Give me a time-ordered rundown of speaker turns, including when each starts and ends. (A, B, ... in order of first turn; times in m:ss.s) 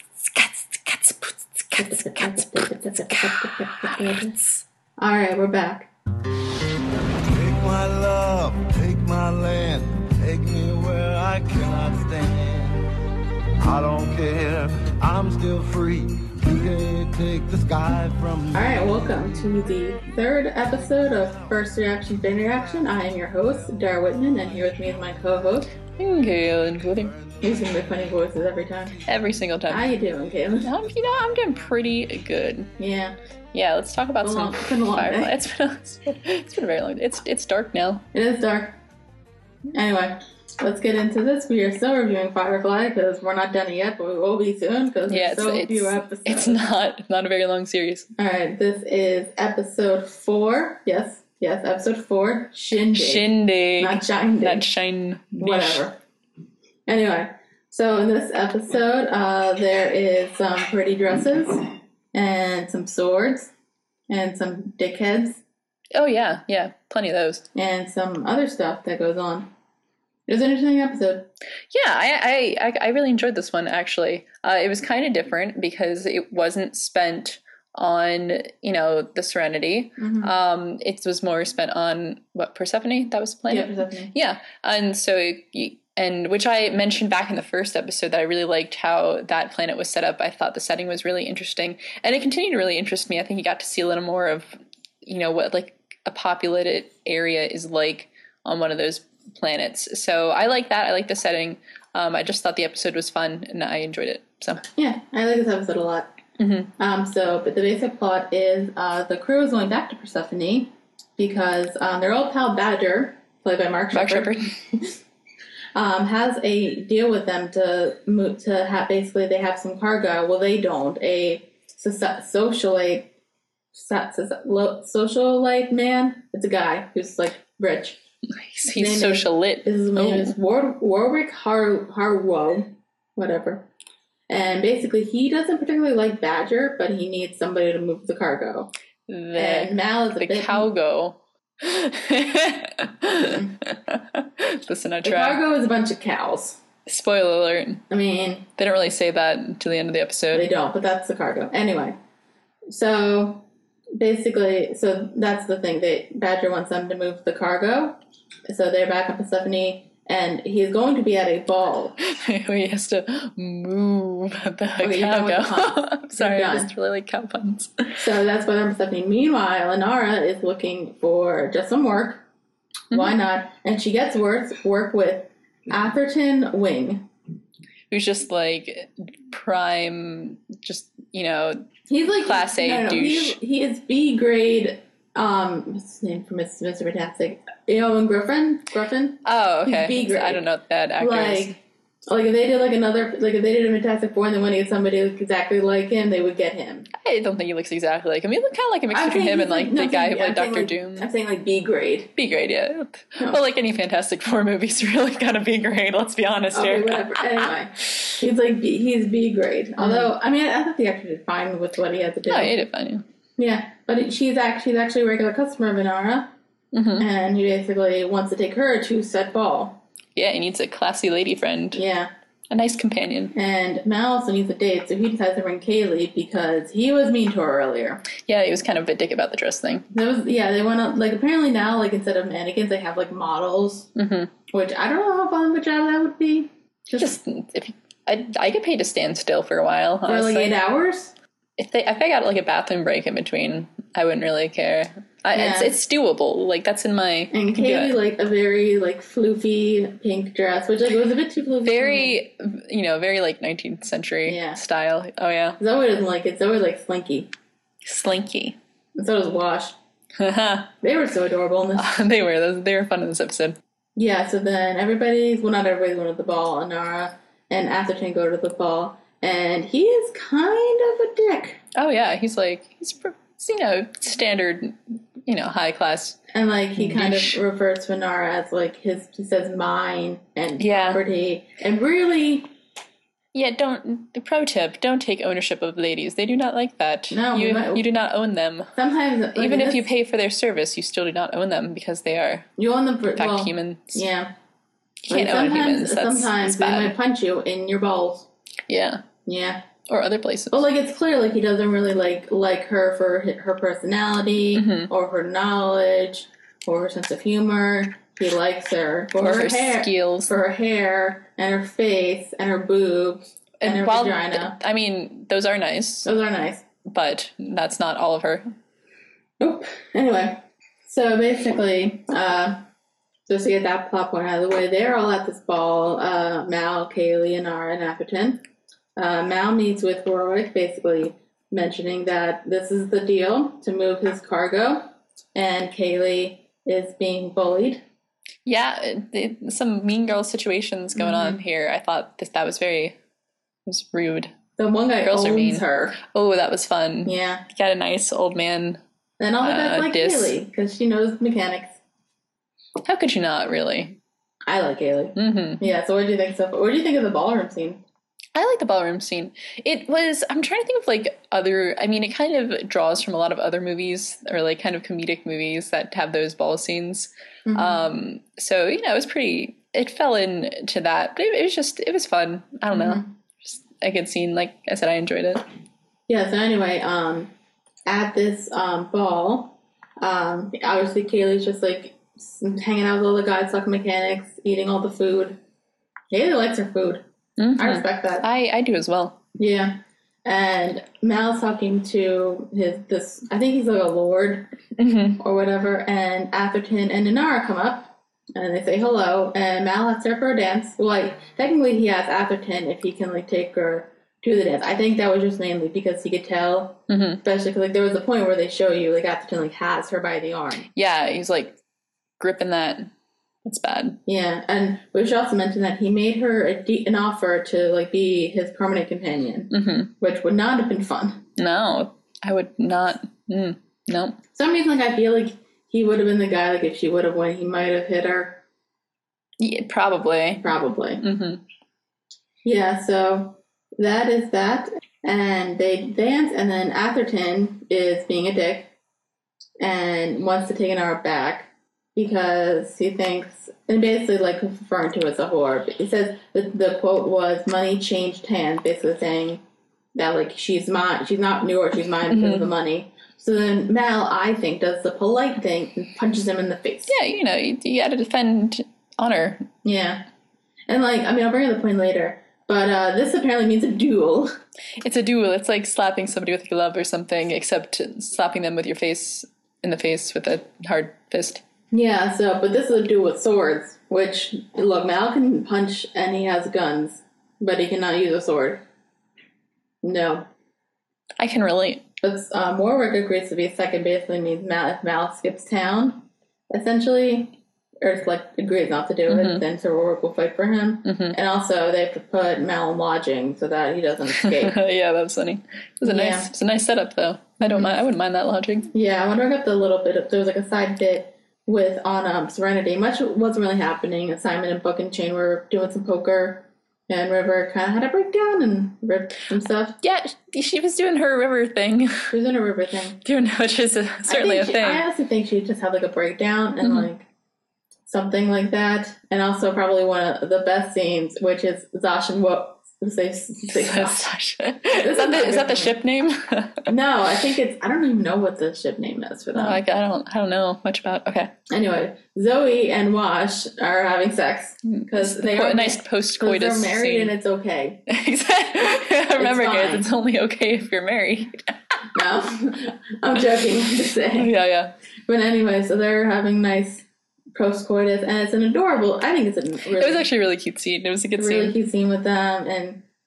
0:00.2-0:04.4 A
0:01.8-0:04.4 B
0:05.0-0:05.9 B
0:07.2-0:12.9 C
0:13.6-0:19.7 C
0:18.5-0:25.7 B
0:20.6-0:23.8 C
0:24.8-0:25.1 C
0:26.0-0:27.2 A
0:26.9-0:27.9 C
0:27.4-0:29.0 B
0:29.0-0:29.9 A
0:29.7-0:30.7 B
0:30.6-0:32.7 A
0:32.8-0:33.2 B
0:33.5-0:38.0 A
0:34.2-0:35.4 B
0:38.1-0:38.8 B
0:39.7-0:46.7 B
0:45.1-0:48.1 A
0:48.2-0:54.7 B
0:52.9-0:55.8 A
0:55.4-0:56.0 B
0:56.9-1:03.5 B
1:04.1-1:05.4 B
1:05.9-1:07.4 A
1:07.6-1:09.5 B
1:10.3-1:11.3 B
1:11.7-1:34.5 A
1:20.0-1:20.3 B
1:23.5-1:24.1 B
1:35.0-1:44.7 A
1:44.8-1:46.1 B
1:46.4-1:46.7 A
1:46.8-1:55.0 B
1:53.9-1:54.4 A
1:55.8-2:03.1 B
2:03.7-2:08.0 B
2:08.4-2:10.3 A
2:08.7-2:13.7 B
2:14.3-2:18.7 B
2:19.1-2:25.4 A
2:19.4-2:20.7 B
2:23.2-2:23.5 B
2:25.0-2:26.6 B
2:26.9-2:27.8 A
2:27.9-2:28.5 B
2:28.6-2:30.5 A
2:30.3-2:32.0 B
2:32.7-2:33.4 B
2:34.0-2:42.0 B
2:42.0-2:48.0 A
2:44.8-2:46.7 B
2:48.0-2:52.2 B
2:52.9-2:57.1 B
2:57.9-3:01.7 A
3:01.9-3:10.4 B
3:02.2-3:03.4 A
3:09.2-3:11.6 A
3:11.0-3:11.6 B
3:12.1-3:16.9 B
3:17.0-3:21.1 A
3:18.9-3:22.1 B
3:22.2-3:28.2 A
3:26.5-3:32.6 B
3:29.8-3:30.1 A
3:32.3-3:33.0 A
3:33.4-3:36.3 B
3:36.7-3:37.0 A
3:37.0-3:39.8 B
3:40.2-3:41.8 A
3:41.7-3:42.1 B
3:42.5-3:43.3 A
3:43.3-3:48.1 B
3:48.3-3:49.9 A
3:49.9-3:53.9 B
3:54.0-3:54.3 A
3:54.5-3:57.2 B
3:57.0-4:00.5 A
4:00.0-4:01.1 B
4:01.6-4:08.0 A
4:05.3-4:05.7 B
4:07.3-4:12.2 B
4:11.6-4:15.6 A
4:14.3-4:14.6 B
4:15.6-4:17.3 B
4:17.8-4:18.6 A
4:19.0-4:19.8 B
4:20.2-4:20.7 A
4:20.8-4:22.0 B
4:21.8-4:23.6 A
4:24.0-4:31.6 B
4:31.8-4:36.2 A
4:36.3-4:42.5 B
4:36.8-4:37.4 A
4:40.6-4:41.0 A
4:43.3-4:48.7 A
4:47.1-4:47.8 B
4:48.8-4:49.9 B
4:49.4-4:52.5 A
4:52.6-4:54.3 B
4:53.2-4:54.0 A
4:55.1-4:57.0 A
4:55.1-4:58.3 B
4:58.7-4:59.0 A
4:59.2-4:59.7 B
4:59.9-5:00.6 A
5:00.5-5:14.6 B
5:04.6-5:04.9 A
5:09.2-5:10.3 A
5:13.6-5:16.1 A
5:16.0-5:16.6 B
5:16.9-5:18.5 A
5:19.4-5:22.6 B
5:23.3-5:28.4 B
5:29.0-5:37.8 B
5:38.5-5:43.0 A
5:41.0-5:41.4 B
5:43.7-5:44.4 A
5:44.6-5:46.0 B
5:45.0-5:48.8 A
5:47.0-5:47.4 B
5:49.2-5:51.8 B
5:49.4-5:50.4 A
5:52.8-5:54.0 A
5:54.5-5:57.8 B
5:55.2-5:55.6 A
5:58.4-6:15.4 A
6:07.5-6:07.8 B
6:12.7-6:13.1 B
6:16.1-6:17.3 B
6:17.9-6:25.4 B
6:26.1-6:27.0 B
6:27.4-6:29.2 A
6:27.6-6:28.3 B
6:29.4-6:34.5 B
6:34.8-6:35.2 A
6:35.2-6:50.7 B
6:46.9-6:47.2 A
6:50.8-6:51.6 A
6:52.2-6:52.9 A
6:53.4-6:54.0 A
6:54.1-7:01.2 B
6:59.5-6:59.9 A
7:01.4-7:04.2 A
7:04.4-7:08.4 B
7:09.4-7:10.5 A
7:10.4-7:11.0 B
7:11.0-7:11.4 A
7:12.4-7:18.7 B
7:19.6-7:29.4 B
7:30.0-7:37.0 B
7:32.1-7:32.5 A
7:36.9-7:39.5 A
7:39.6-7:40.0 B
7:40.7-7:44.3 B
7:44.8-7:51.4 A
7:51.7-7:58.6 B
7:59.8-8:00.3 B
8:01.2-8:01.8 A
8:02.0-8:14.6 B
8:09.1-8:09.4 A
8:10.8-8:11.2 A
8:14.2-8:18.7 A
8:15.8-8:16.3 B
8:17.4-8:17.7 B
8:18.7-8:29.8 B
8:29.8-8:32.1 A
8:32.1-8:33.0 B
8:33.0-8:34.8 A
8:34.1-8:37.0 B
8:37.9-8:44.1 B
8:43.5-8:46.7 A
8:44.7-8:45.8 B
8:46.7-8:49.6 B
8:49.4-8:51.3 A
8:51.5-8:57.8 B
8:54.7-8:57.2 A
8:57.9-9:01.6 A
8:59.2-8:59.8 B
9:02.0-9:04.3 B
9:04.2-9:04.7 A
9:05.1-9:10.1 B
9:09.8-9:11.6 A
9:11.2-9:12.8 B